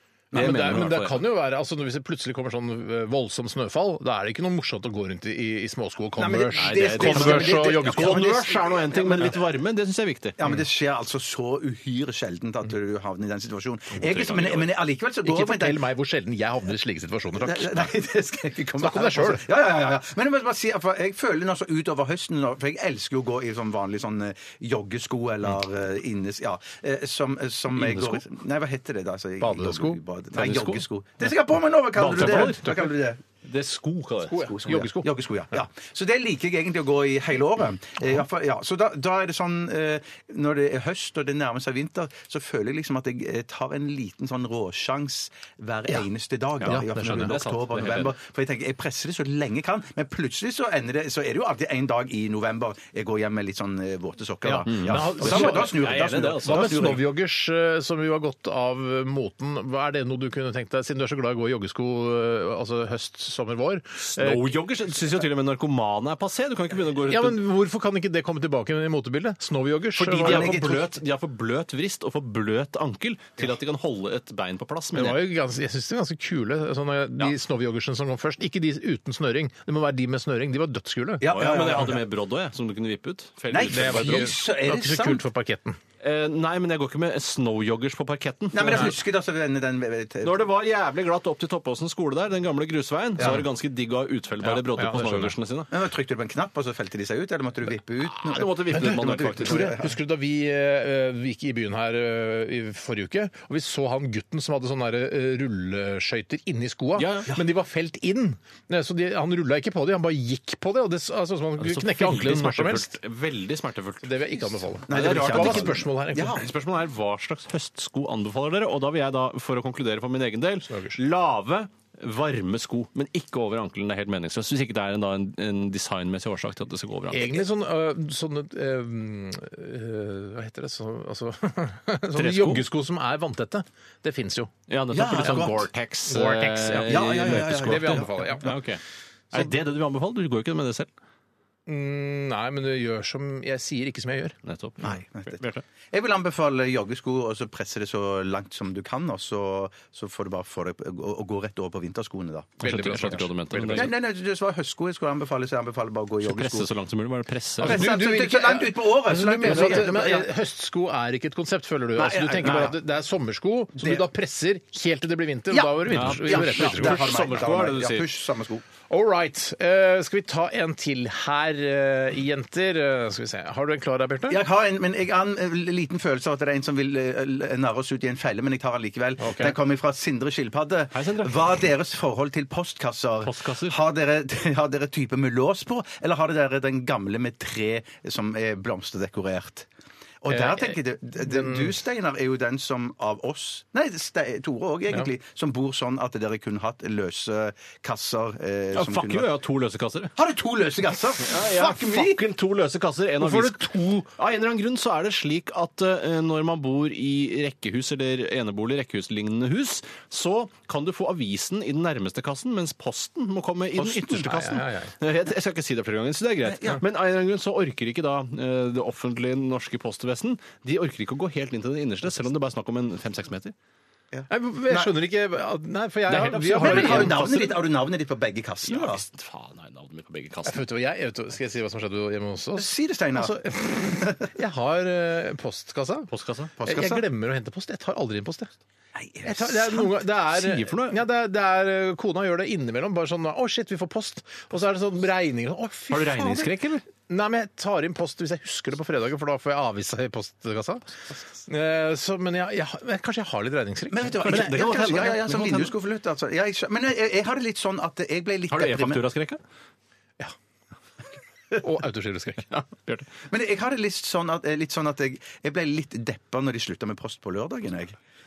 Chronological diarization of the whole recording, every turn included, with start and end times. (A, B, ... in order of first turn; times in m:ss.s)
0:00.3-0:00.9 A
0:00.3-0:01.2 B
0:00.3-0:08.4 C
0:06.2-0:09.4 A
0:06.5-0:10.4 B
0:10.4-0:15.8 A
0:14.0-0:14.7 B
0:15.2-0:17.9 C
0:17.4-0:33.2 A
0:18.8-0:19.4 C
0:27.7-0:28.2 B
0:29.4-0:30.0 C
0:30.3-0:30.8 B
0:31.9-0:32.9 B
0:32.2-0:32.8 C
0:33.4-0:34.5 B
0:34.3-0:35.1 C
0:34.4-0:57.0 A
0:46.6-0:48.2 B
0:46.6-0:47.3 C
0:54.4-0:55.8 C
0:54.6-0:57.0 B
0:56.4-1:04.4 C
1:04.1-1:07.4 B
1:07.1-1:10.7 C
1:10.0-1:15.2 B
1:10.2-1:10.9 A
1:14.9-1:21.3 C
1:21.2-1:22.0 A
1:21.3-1:24.3 B
1:23.5-1:25.2 A
1:23.7-1:25.8 C
1:26.0-1:29.0 B
1:28.5-1:30.5 A
1:30.2-1:35.7 B
1:33.2-1:33.4 A
1:34.4-1:35.3 C
1:35.7-1:39.9 A
1:38.0-1:39.7 B
1:38.7-1:52.9 C
1:47.0-1:47.3 B
1:51.6-1:54.1 B
1:54.0-1:56.4 C
1:54.9-1:56.5 A
1:54.9-2:07.3 B
2:00.7-2:01.0 C
2:07.1-2:14.5 C
2:12.2-2:12.6 B
2:14.7-2:18.8 B
2:14.9-2:15.6 A
2:15.2-2:15.5 C
2:16.1-2:18.5 C
2:16.8-2:18.6 A
2:19.3-2:20.9 B
2:21.7-2:25.0 C
2:24.4-2:25.6 B
2:24.8-2:33.2 A
2:32.6-2:33.9 C
2:32.6-2:33.9 B
2:33.7-2:36.7 A
2:36.2-2:37.8 B
2:37.6-2:40.3 A
2:37.6-2:47.0 C
2:39.4-2:39.9 B
2:41.9-2:42.8 A
2:43.8-2:44.0 A
2:45.5-2:48.6 A
2:45.9-2:48.1 B
2:48.9-2:54.4 C
2:54.3-3:09.7 A
2:59.2-2:59.6 C
3:00.9-3:01.4 B
3:03.2-3:03.8 B
3:10.2-3:19.3 A
3:10.3-3:11.7 C
3:18.7-3:20.1 B
3:20.2-3:22.2 A
3:21.2-3:43.5 B
3:23.2-3:24.1 C
3:33.8-3:34.3 A
3:34.2-3:34.9 C
3:36.4-3:36.8 A
3:44.1-3:44.9 A
3:44.3-3:47.2 C
3:46.1-3:47.6 B
3:46.6-3:49.0 A
3:48.6-3:50.6 B
3:50.4-3:56.1 C
3:52.6-3:53.3 A
3:54.0-3:54.2 A
3:56.1-3:56.5 B
3:56.6-3:57.0 A
3:56.6-3:58.5 C
3:58.9-3:59.9 A
3:59.2-4:10.9 C
4:00.3-4:01.0 B
4:05.9-4:06.8 B
4:11.5-4:14.5 C
4:13.9-4:19.0 A
4:14.2-4:15.7 B
4:18.5-4:19.4 B
4:21.6-4:22.6 C
4:22.5-4:23.1 B
4:23.3-4:28.0 A